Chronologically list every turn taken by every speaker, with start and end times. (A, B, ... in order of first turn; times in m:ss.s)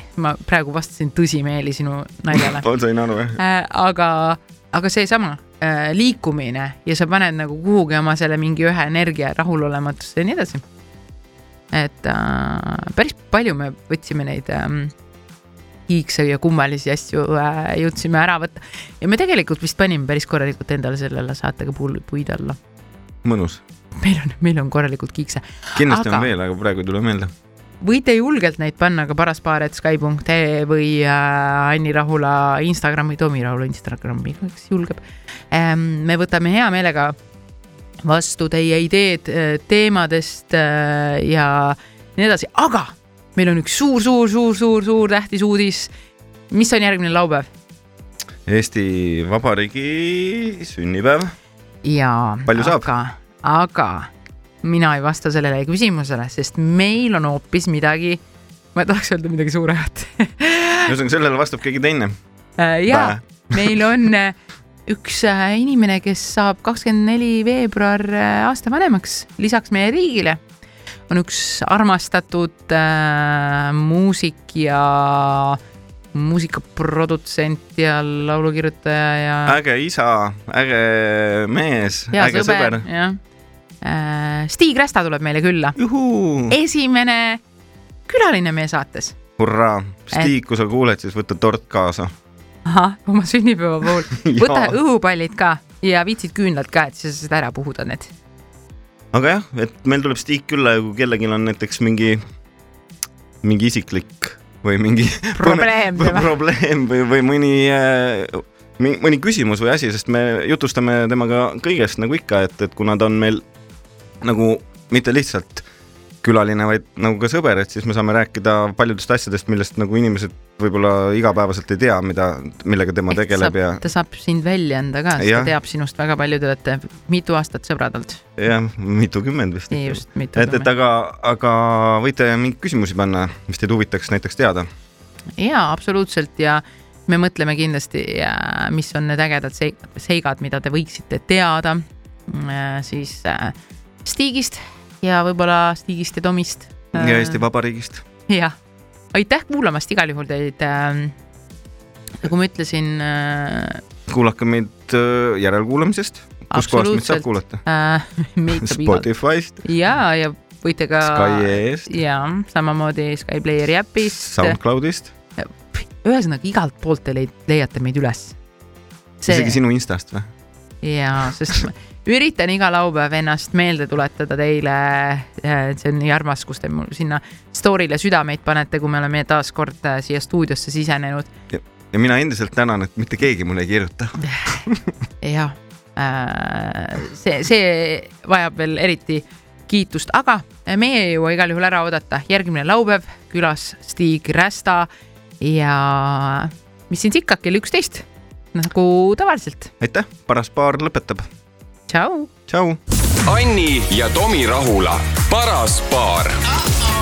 0:00.2-0:02.7 A
0:02.3-0:03.4 B
0:03.4-0:10.6 A
0:11.7-0:14.9 A
0:15.9-0:22.6 A
0:23.2-0:23.6 B
0:24.0-0:26.3 A
0:25.8-0:27.3 B
0:27.8-0:37.2 A
0:38.0-0:45.9 A
0:46.5-0:47.5 A
0:48.5-0:51.3 B
0:51.8-0:54.1 A
0:52.5-0:52.9 B
0:54.6-0:58.2 A
0:58.7-1:01.0 A
1:00.9-1:02.2 B
1:02.6-1:10.4 A
1:02.9-1:03.8 B
1:11.1-1:15.6 A
1:16.1-1:19.6 A
1:19.5-1:22.9 B
1:22.1-1:23.2 A
1:23.8-1:25.8 A
1:25.8-1:26.6 B
1:26.5-1:27.4 A
1:28.1-1:29.2 A
1:29.4-1:32.2 B
1:32.6-1:38.1 A
1:34.1-1:34.8 B
1:39.1-1:42.2 B
1:43.4-1:53.4 B
1:45.4-1:46.3 A
1:54.2-1:55.7 B
1:56.2-2:03.8 B
2:03.1-2:08.2 A
2:05.2-2:05.5 B
2:08.4-2:14.7 B
2:09.7-2:10.7 A
2:15.4-2:27.4 A
2:26.9-2:28.0 B
2:28.3-2:28.6 A
2:29.1-2:31.2 A
2:32.2-2:33.8 A
2:34.1-2:37.6 B
2:36.5-2:39.1 A
2:38.6-2:39.6 B
2:39.6-2:44.6 A
2:41.0-2:42.0 B
2:44.0-2:45.1 B
2:45.4-2:48.4 A
2:49.2-2:49.6 A
2:49.3-2:50.3 B
2:50.8-3:01.3 A
3:01.5-3:04.9 B
3:04.2-3:04.6 A
3:05.2-3:14.9 A
3:15.4-3:19.7 A
3:19.8-3:21.2 B
3:21.9-3:22.3 A
3:22.5-3:22.8 B
3:23.2-3:26.5 C